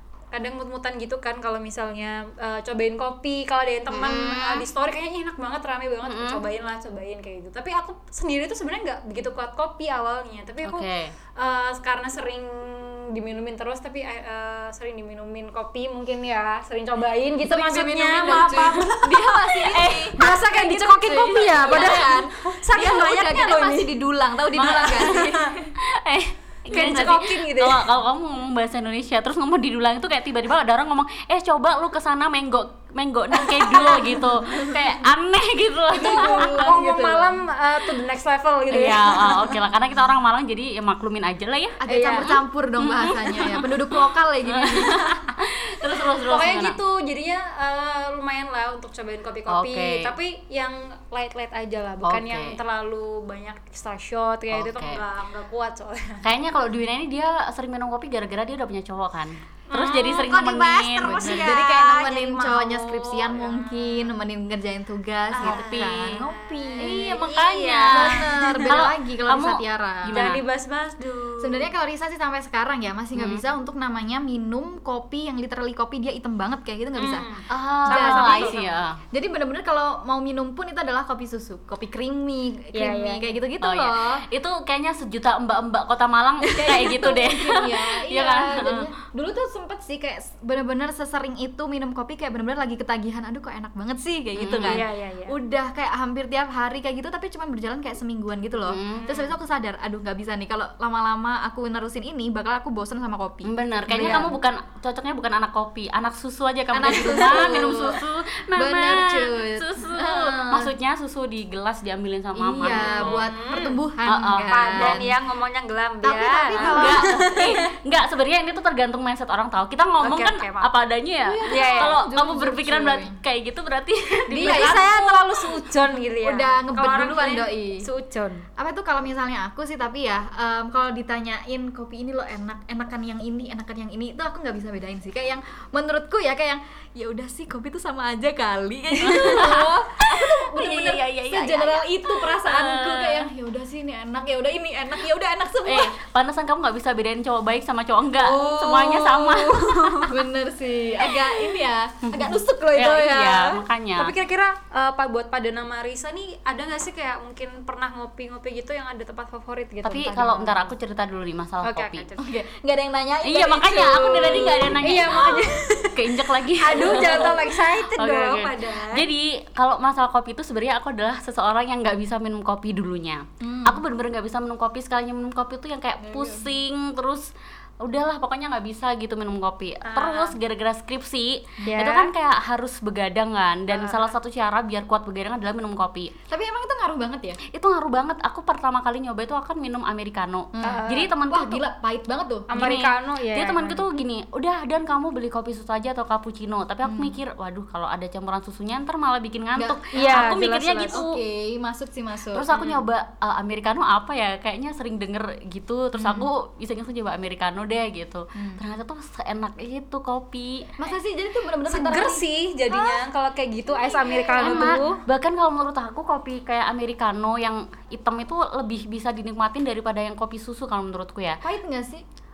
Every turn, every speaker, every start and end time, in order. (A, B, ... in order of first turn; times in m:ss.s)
0:00.3-0:24.0 A
0:03.9-0:04.6 B
0:06.0-0:06.4 B
0:10.6-0:11.1 B
0:17.4-0:25.7 C
0:24.5-0:25.2 B
0:24.6-0:25.6 A
0:25.8-0:36.7 B
0:26.7-0:27.8 A
0:33.5-0:34.9 C
0:35.9-0:37.4 C
0:35.9-0:39.5 A
0:38.7-0:46.8 B
0:39.1-0:39.6 C
0:41.8-0:45.1 C
0:41.9-0:42.3 A
0:46.3-0:56.2 A
0:49.5-0:50.1 B
0:52.0-0:52.6 B
0:54.5-0:55.0 B
0:56.2-1:01.4 B
0:59.7-1:04.1 A
1:01.0-1:07.2 C
1:05.3-1:08.8 A
1:05.4-1:06.2 B
1:06.8-1:10.4 B
1:07.9-1:10.3 C
1:10.1-1:11.7 A
1:11.4-1:17.3 C
1:13.2-1:13.4 B
1:17.0-1:18.6 A
1:17.5-1:19.0 B
1:17.8-1:24.2 C
1:22.7-1:23.3 A
1:23.6-1:28.9 B
1:26.5-1:44.3 C
1:34.4-1:34.8 B
1:34.6-1:35.4 A
1:38.7-1:39.1 B
1:39.0-1:39.3 A
1:43.4-1:53.2 B
1:46.7-1:48.0 C
1:48.5-1:50.7 C
1:52.4-1:55.1 C
1:52.6-1:53.8 A
1:54.0-1:55.0 B
1:54.5-1:57.6 A
1:56.0-1:57.5 C
1:56.6-2:05.1 B
2:00.0-2:00.7 A
2:01.2-2:03.2 C
2:01.5-2:02.0 A
2:04.3-2:05.2 C
2:04.3-2:08.4 A
2:06.2-2:07.8 C
2:08.6-2:25.9 C
2:19.0-2:23.3 B
2:25.6-2:30.0 B
2:28.2-2:30.2 A
2:30.0-2:33.6 C
2:32.1-2:34.1 B
2:34.0-2:40.7 A
2:39.8-2:42.0 B
2:41.6-2:42.4 A
2:42.2-2:45.4 C
2:43.2-2:57.3 B
2:44.8-2:49.0 A
2:46.7-2:47.4 C
2:53.4-2:53.8 C
2:56.0-2:56.5 C
2:57.8-3:06.1 B
2:59.8-3:00.3 A
3:01.6-3:02.1 A
3:03.7-3:04.1 A
3:06.3-3:07.4 C
3:07.5-3:11.6 B
3:10.5-3:12.5 C
3:10.6-3:11.1 A
3:12.5-3:13.8 A
3:12.5-3:21.2 B
3:16.8-3:17.2 C
3:19.6-3:22.5 C
3:19.9-3:21.0 A
3:22.3-3:30.7 B
3:22.5-3:22.8 A
3:25.9-3:26.3 C
3:28.3-3:28.6 C
3:30.8-3:33.0 C
3:31.7-3:35.0 A
3:33.7-3:34.9 C
3:34.4-3:41.4 B
3:41.4-3:42.0 C